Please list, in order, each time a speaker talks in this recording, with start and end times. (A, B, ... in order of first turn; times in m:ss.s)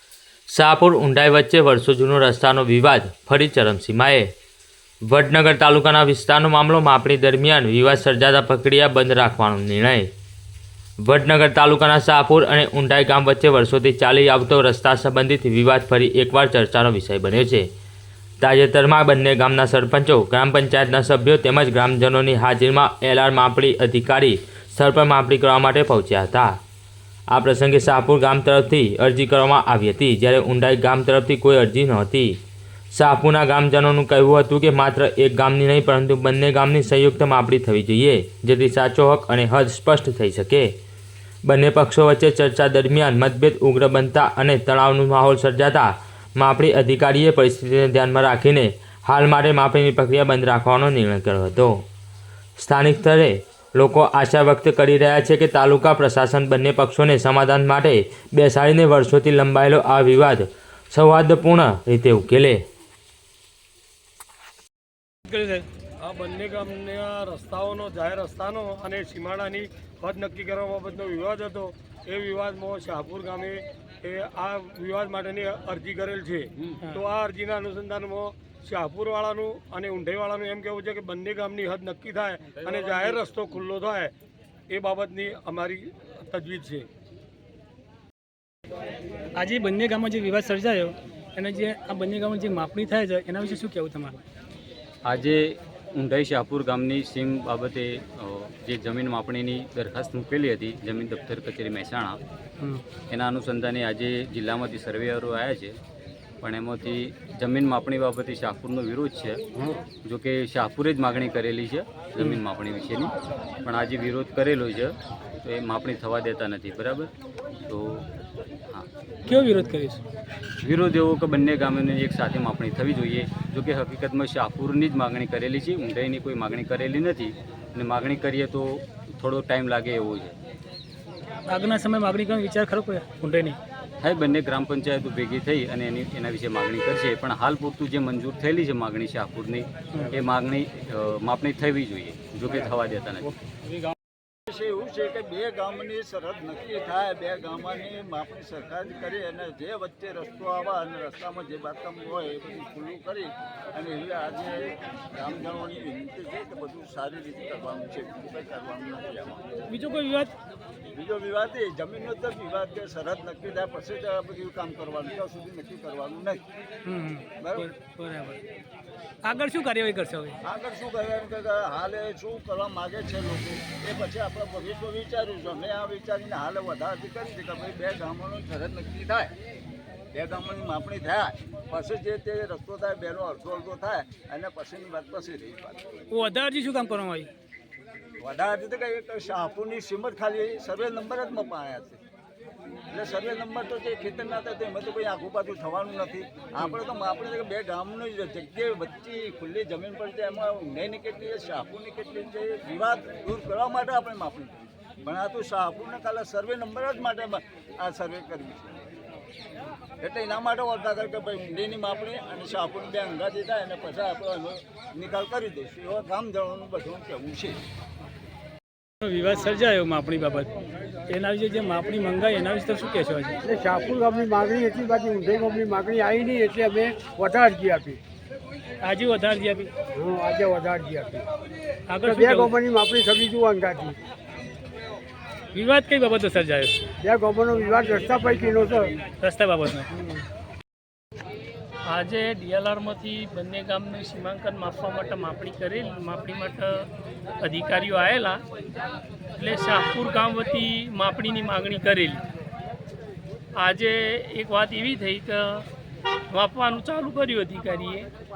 0:00.5-0:04.3 A
0:05.1-0:10.1 A
0:11.0-0:17.7 A
0:18.4-0:26.6 A
0:27.3-0:32.4 A
0:32.9-0:40.7 A
0:41.4-0:51.8 A
0:52.6-1:02.6 A
1:05.3-1:05.7 B
1:06.0-1:24.1 C
1:22.6-1:23.2 D
1:24.7-1:26.8 C
1:29.4-1:34.2 B
1:35.0-1:42.2 D
1:43.1-1:45.8 D
1:46.4-1:49.4 D
1:50.0-1:53.1 D
1:53.6-1:57.1 D
1:57.7-1:58.1 D
1:59.3-2:00.0 B
2:00.6-2:10.4 D
2:11.5-2:13.6 B
2:14.0-2:23.3 D
2:24.5-2:39.4 E
2:39.7-2:40.3 B
2:40.9-2:46.4 E
2:46.8-2:48.4 B
2:47.4-2:47.7 E
2:49.2-2:50.4 B
2:50.4-2:59.3 E
3:00.1-3:05.8 E
3:06.1-3:07.3 B
3:08.2-3:12.0 E
3:12.9-3:28.8 E
3:30.0-3:37.6 E
3:39.0-3:40.5 B
3:41.1-3:43.4 B
3:43.4-3:48.0 F
3:48.8-3:49.7 B
3:50.0-3:51.2 F
3:51.9-3:52.6 B
3:52.0-3:54.0 F
3:55.5-3:56.8 B
3:57.0-3:58.9 F
3:58.2-3:58.5 B
3:59.1-3:59.9 B
4:01.8-4:06.9 G
4:07.4-4:08.4 G
4:09.4-4:12.2 G
4:13.5-4:15.7 G
4:16.3-4:18.1 G